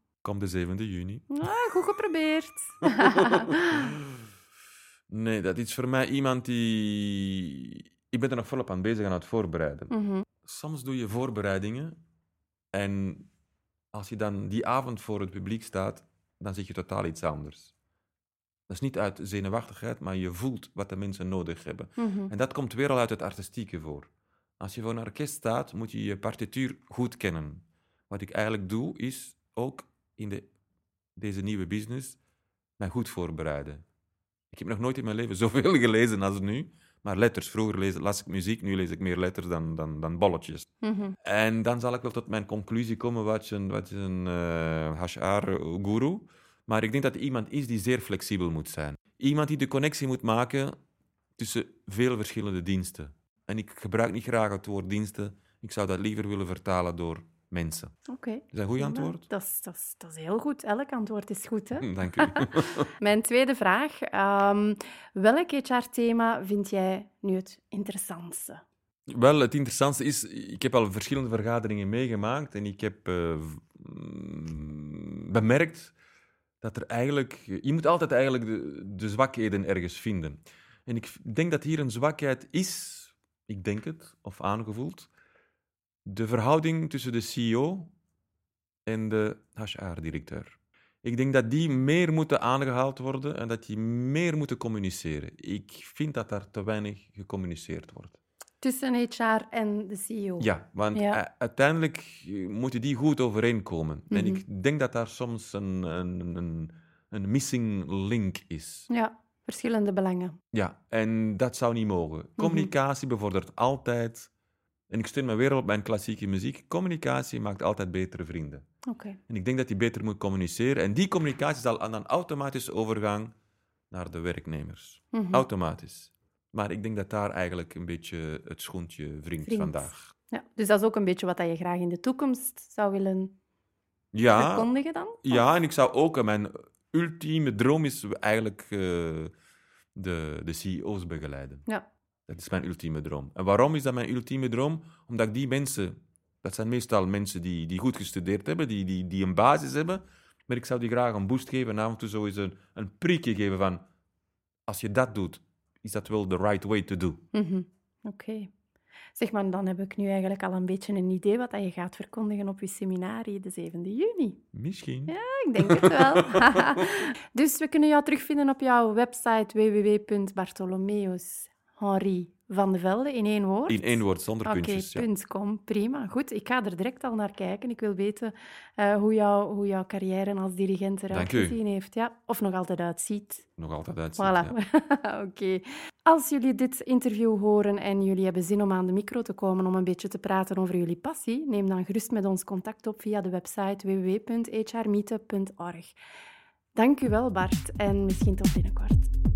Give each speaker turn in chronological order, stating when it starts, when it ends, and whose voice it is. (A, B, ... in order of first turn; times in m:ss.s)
0:00.2-0:01.3 A
0:01.3-0:03.9 B
0:03.0-0:03.8 A
0:05.1-0:09.9 A
0:09.9-0:10.2 B
0:10.4-0:12.0 A
0:12.7-0:13.3 A
0:13.9-0:17.7 A
0:18.7-0:30.5 A
0:22.0-0:22.3 B
0:31.2-0:32.2 A
0:32.8-0:33.8 A
0:34.5-0:40.7 A
0:40.8-0:41.2 B
0:41.2-0:50.7 A
0:51.4-0:57.9 A
0:58.1-1:08.6 B
0:58.5-0:59.2 A
1:01.8-1:02.9 A
1:09.1-1:15.9 A
1:16.6-1:25.1 A
1:26.0-1:27.9 A
1:28.8-1:38.2 A
1:38.6-1:41.2 B
1:40.4-1:48.9 A
1:44.1-1:44.4 B
1:48.9-1:50.4 B
1:50.5-1:54.3 A
1:52.4-1:52.7 B
1:54.9-1:58.6 A
1:58.8-1:59.2 B
1:59.3-2:03.3 A
2:03.9-2:10.1 A
2:05.1-2:05.4 B
2:09.4-2:13.3 B
2:14.1-2:14.7 A
2:14.3-2:15.5 B
2:15.2-2:19.3 A
2:20.0-2:21.6 A
2:22.3-2:33.8 A
2:34.7-2:37.2 A
2:37.3-2:38.5 B
2:39.1-2:44.4 B
2:44.5-2:46.8 A
2:45.1-3:03.4 B
2:53.7-2:55.1 A
3:01.1-3:01.6 A
3:03.6-3:04.6 A
3:04.2-3:15.9 B
3:16.7-3:19.1 B